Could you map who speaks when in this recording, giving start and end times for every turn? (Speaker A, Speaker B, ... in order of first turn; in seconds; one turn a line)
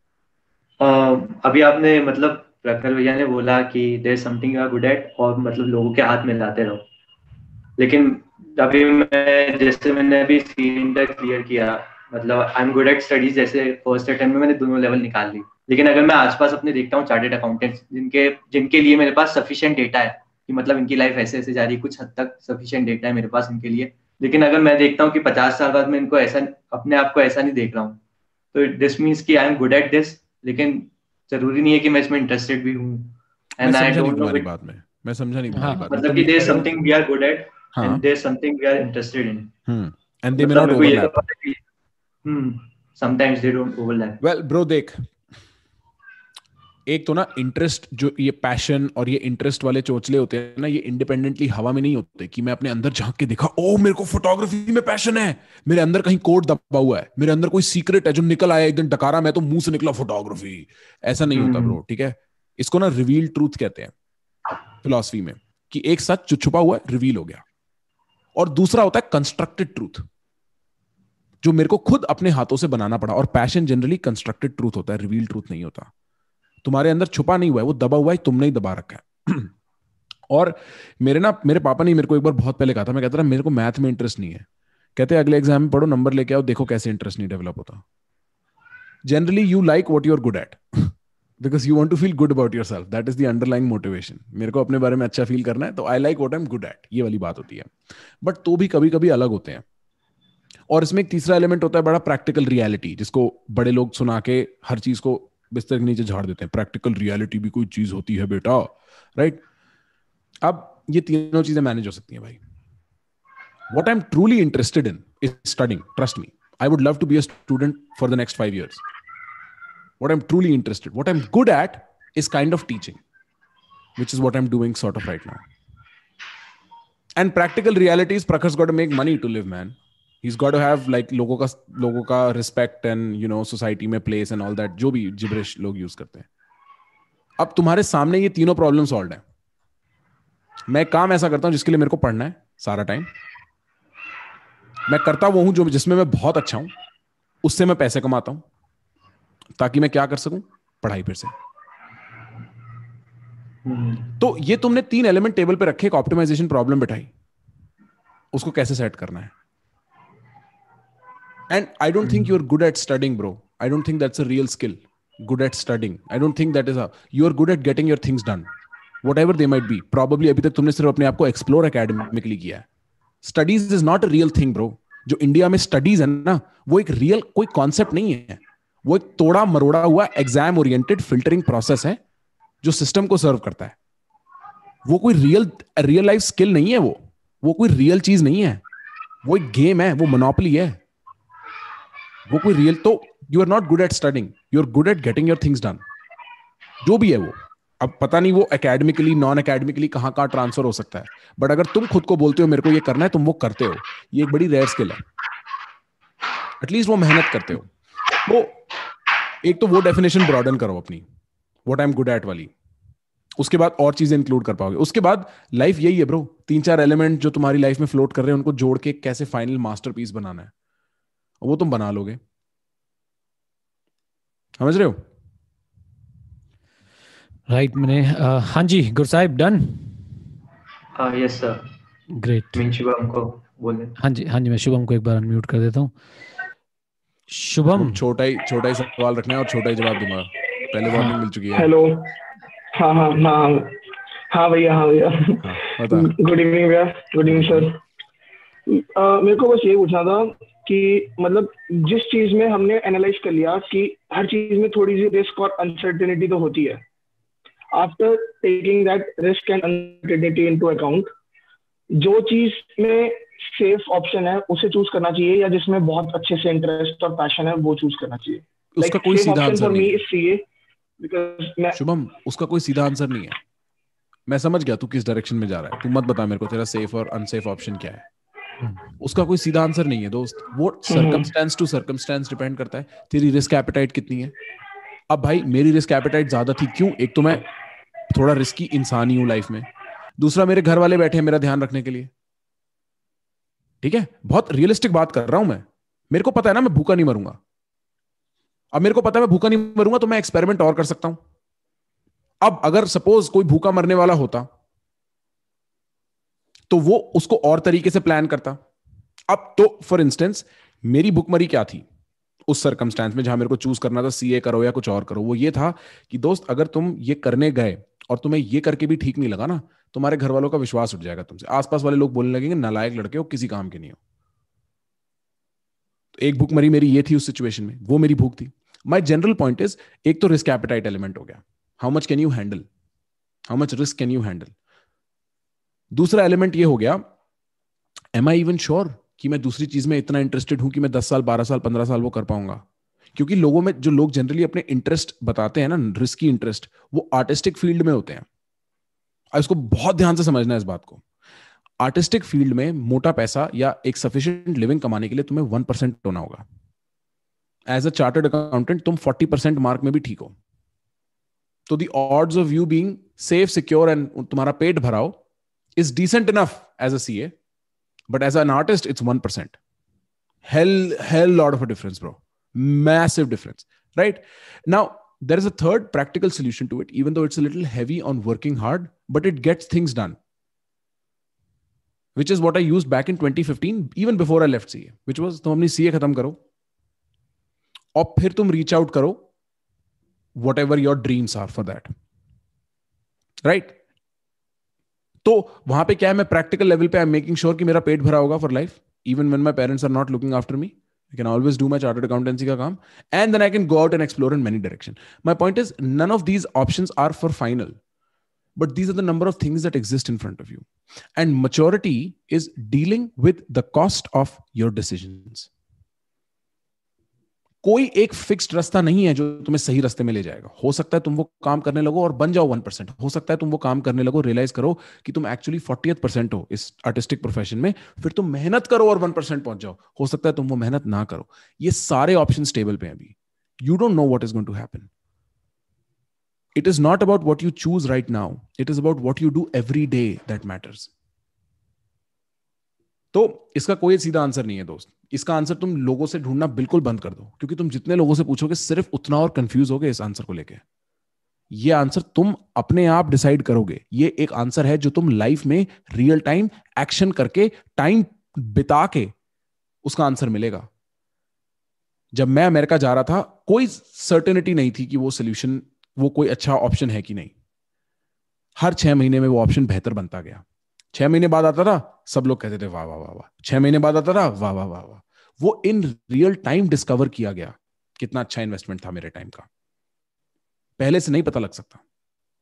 Speaker A: 0.8-6.8
Speaker A: 7.8-28.0
Speaker A: 28.5-34.5
Speaker B: 33.6-36.7
Speaker C: 35.6-35.9
Speaker A: 35.9-39.5
Speaker B: 37.8-38.0
Speaker B: 39.7-41.2
Speaker A: 40.3-41.6
Speaker A: 42.2-44.2
Speaker B: 44.2-45.0
Speaker B: 46.9-63.9
Speaker A: 61.3-61.8
Speaker B: 64.8-67.4
Speaker B: 68.3-70.1
Speaker B: 71.4-75.9
Speaker B: 76.6-79.5
Speaker B: 80.3-87.8
Speaker B: 89.1-99.7
Speaker B: 100.7-109.4
Speaker B: 110.4-112.4
Speaker B: 113.7-118.8
Speaker B: 120.0-123.0
Speaker B: 124.0-125.4
Speaker B: 127.2-136.3
Speaker B: 137.4-139.2
Speaker B: 140.7-143.1
Speaker B: 144.9-146.7
Speaker B: 147.4-148.4
Speaker B: 149.6-151.3
Speaker A: 153.7-154.0
Speaker B: 154.2-157.1
Speaker B: 158.3-159.3
Speaker B: 161.5-168.5
Speaker B: 169.0-172.7
Speaker B: 173.2-182.0
Speaker B: 182.6-183.8
Speaker B: 184.8-188.6
Speaker B: 189.2-190.8
Speaker B: 192.3-195.8
Speaker B: 196.8-205.0
Speaker B: 206.6-208.6
Speaker B: 209.4-211.1
Speaker B: 211.7-212.5
Speaker B: 213.4-220.5
Speaker B: 221.4-222.2
Speaker B: 224.6-225.0
Speaker C: 227.5-230.1
Speaker A: 230.9-231.6
Speaker C: 232.2-232.6
Speaker A: 232.5-233.9
Speaker C: 234.0-235.9
Speaker C: 237.3-238.0
Speaker B: 237.7-241.7
Speaker D: 241.5-242.1
Speaker D: 242.8-243.8
Speaker D: 244.3-247.8
Speaker B: 245.4-246.1
Speaker D: 248.7-256.8
Speaker D: 257.7-261.1
Speaker D: 262.0-270.4
Speaker B: 268.8-270.0
Speaker D: 271.0-271.8
Speaker B: 271.8-273.4
Speaker B: 274.3-278.1
Speaker B: 279.0-284.4
Speaker D: 280.9-281.2
Speaker B: 285.1-287.5
Speaker B: 288.1-292.1
Speaker B: 293.8-297.4
Speaker B: 298.7-301.2
Speaker B: 302.4-304.5
Speaker B: 306.7-308.6
Speaker B: 309.3-311.9
Speaker B: 312.5-324.0
Speaker B: 326.2-332.7
Speaker B: 333.5-334.5
Speaker B: 335.9-337.0
Speaker B: 338.1-342.6
Speaker B: 343.1-348.3
Speaker B: 349.3-351.0
Speaker B: 351.8-356.4
Speaker B: 357.7-360.4
Speaker B: 361.7-365.2
Speaker B: 365.8-367.3
Speaker B: 368.1-369.6
Speaker B: 370.4-380.2
Speaker B: 382.2-386.4
Speaker B: 387.9-389.3
Speaker B: 390.4-391.9
Speaker B: 393.4-393.8
Speaker B: 395.2-407.8
Speaker B: 408.6-415.5
Speaker B: 417.6-434.9
Speaker B: 436.6-440.9
Speaker B: 443.1-450.6
Speaker B: 451.5-459.1
Speaker B: 459.8-460.7
Speaker B: 462.1-467.3
Speaker B: 468.6-479.5
Speaker B: 480.8-481.8